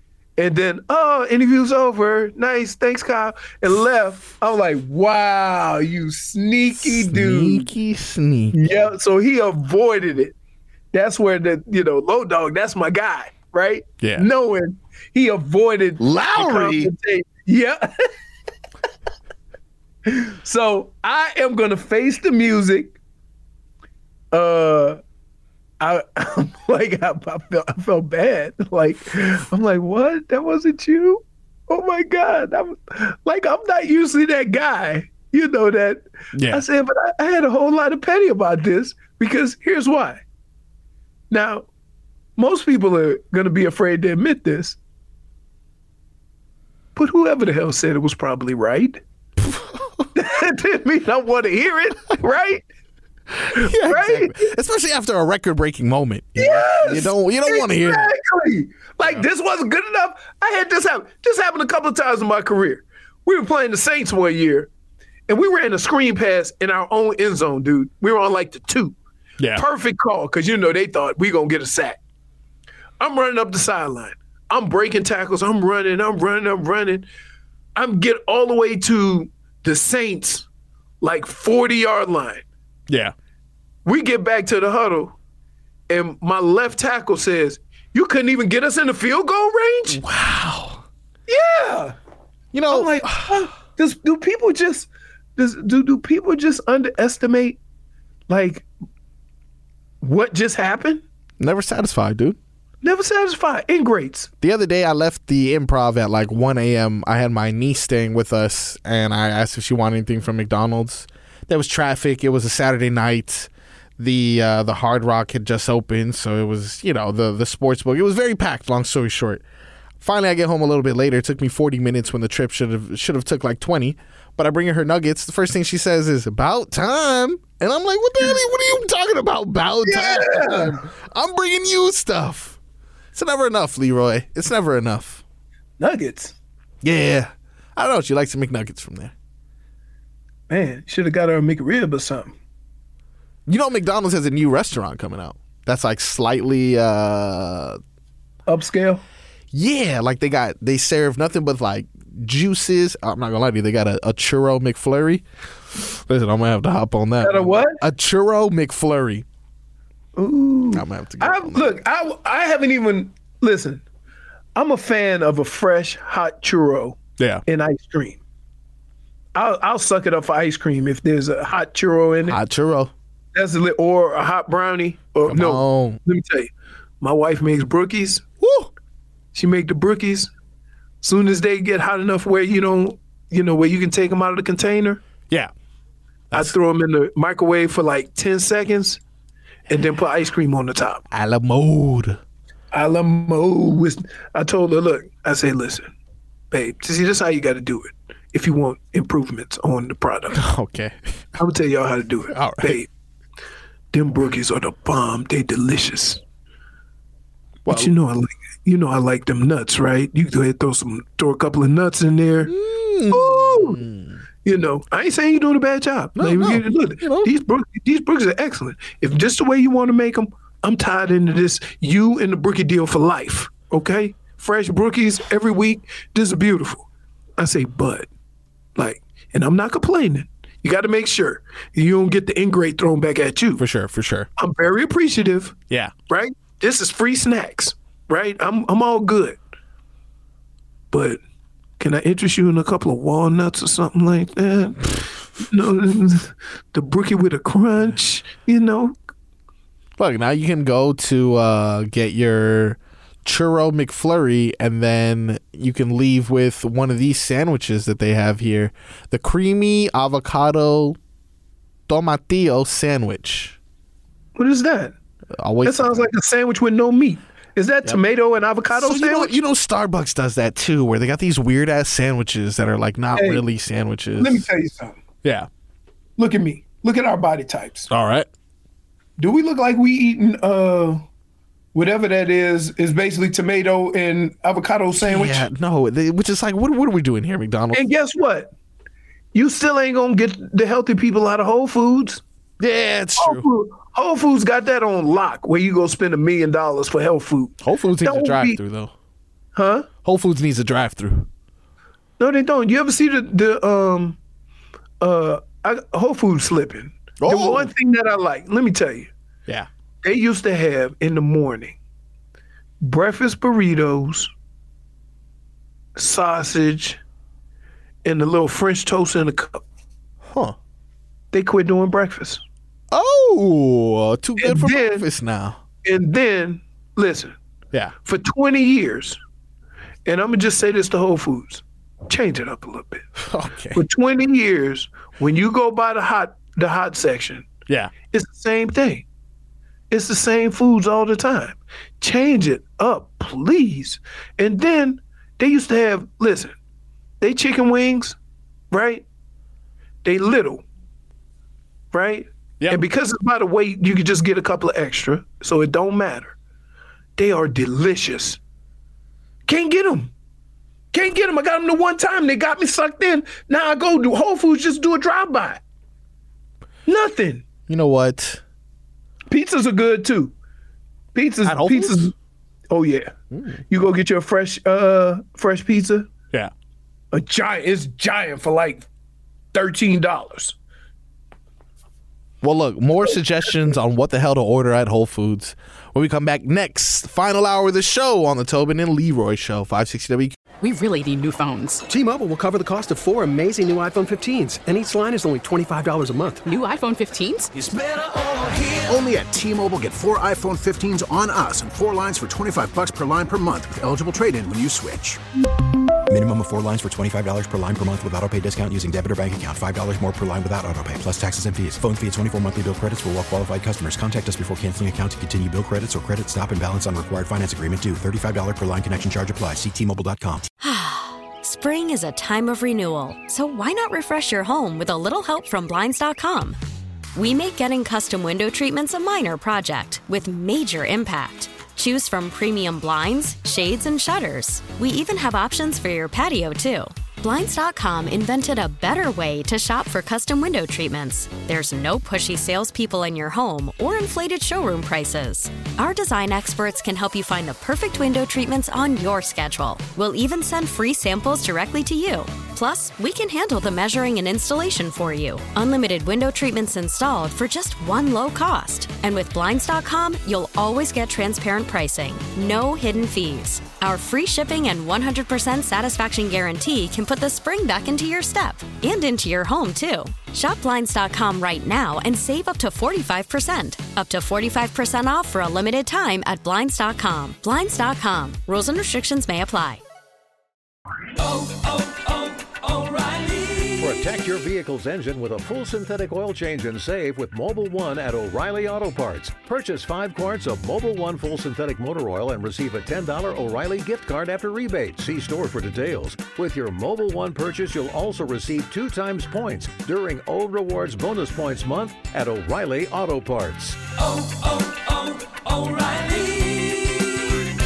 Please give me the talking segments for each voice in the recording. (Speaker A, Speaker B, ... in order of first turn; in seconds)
Speaker A: 0.4-7.7, 8.5-10.3, 10.9-18.0, 20.1-22.9, 24.3-25.0, 25.8-40.2, 41.3-41.7, 42.4-44.8, 47.0-49.0, 50.1-52.6, 53.5-54.5, 56.4-64.7, 65.3-69.0, 69.5-72.0, 73.0-77.1, 77.8-80.5, 81.0-82.5, 83.8-85.2, 85.9-90.0, 91.3-92.0, 92.7-97.6, 98.3-98.7, 100.0-101.0, 102.8-104.3, 129.8-130.8, 135.8-136.4, 140.5-142.4, 148.5-149.0, 157.2-157.8, 160.2-163.8, 164.6-168.2, 169.3-172.4, 173.3-178.2, 179.3-180.3, 181.0-185.0, 186.3-189.0, 189.7-191.0, 192.7-195.9, 196.5-200.4, 201.4-202.9, 203.9-206.2, 207.7-212.5, 213.1-213.8, 214.4-226.9, 227.4-228.1, 228.8-233.6, 234.4-235.6, 236.1-239.4, 240.9-241.2, 241.8-248.9, 264.4-264.9, 265.6-269.4, 273.1-273.4, 274.2-275.0, 276.2-277.9, 279.2-281.1, 281.7-285.5, 287.7-288.5, 289.3-292.2, 293.2-298.6, 299.6-299.9, 302.2-304.2, 305.0-309.1, 310.0-311.8, 312.8-314.3, 316.0-317.0, 318.1-319.6, 321.3-322.4, 324.4-325.1, 325.9-327.4, 328.1-329.2, 330.1-333.1, 333.8-337.5, 338.1-339.1, 339.9-346.6, 347.2-348.2, 348.7-349.1, 350.0-350.6, 351.9-356.4, 357.2-358.4, 359.5-360.1, 360.9-365.6, 366.9-367.4, 369.3-370.3, 371.1-372.1, 372.7-373.1, 373.7-376.1, 377.1-378.9, 379.5-380.6
Speaker B: 6.8-8.6, 14.0-14.3, 16.0-16.9, 36.3-36.6, 49.4-50.1, 53.3-58.1, 82.9-83.1, 89.9-90.8, 92.5-93.5, 101.4-102.4, 104.4-119.4, 120.0-132.6, 133.1-135.2, 136.8-139.1, 143.5-147.8, 149.5-159.2, 160.7-161.8, 167.2-167.4, 172.3-172.9, 175.3-176.0, 178.4-178.7, 191.1-192.2, 200.3-201.2, 202.3-202.8, 207.7-207.9, 212.5-214.2, 216.2-217.3, 233.6-234.3, 250.0-261.0, 261.9-263.6, 265.4-266.1, 268.7-274.5, 277.9-278.3, 285.0-287.8, 292.6-293.4, 297.6-298.9, 300.0-301.3, 307.2-307.7, 320.3-320.6, 322.9-325.6, 333.2-333.8, 367.7-368.4, 371.4-372.1, 373.3-373.6, 382.4-390.4
Speaker C: 390.6-391.8, 396.4-397.5
Speaker D: 391.9-396.6
Speaker E: 397.6-397.8, 398.7-405.2
Speaker F: 406.1-420.5
Speaker G: 420.6-426.6, 427.1-479.8
Speaker H: 483.8-503.8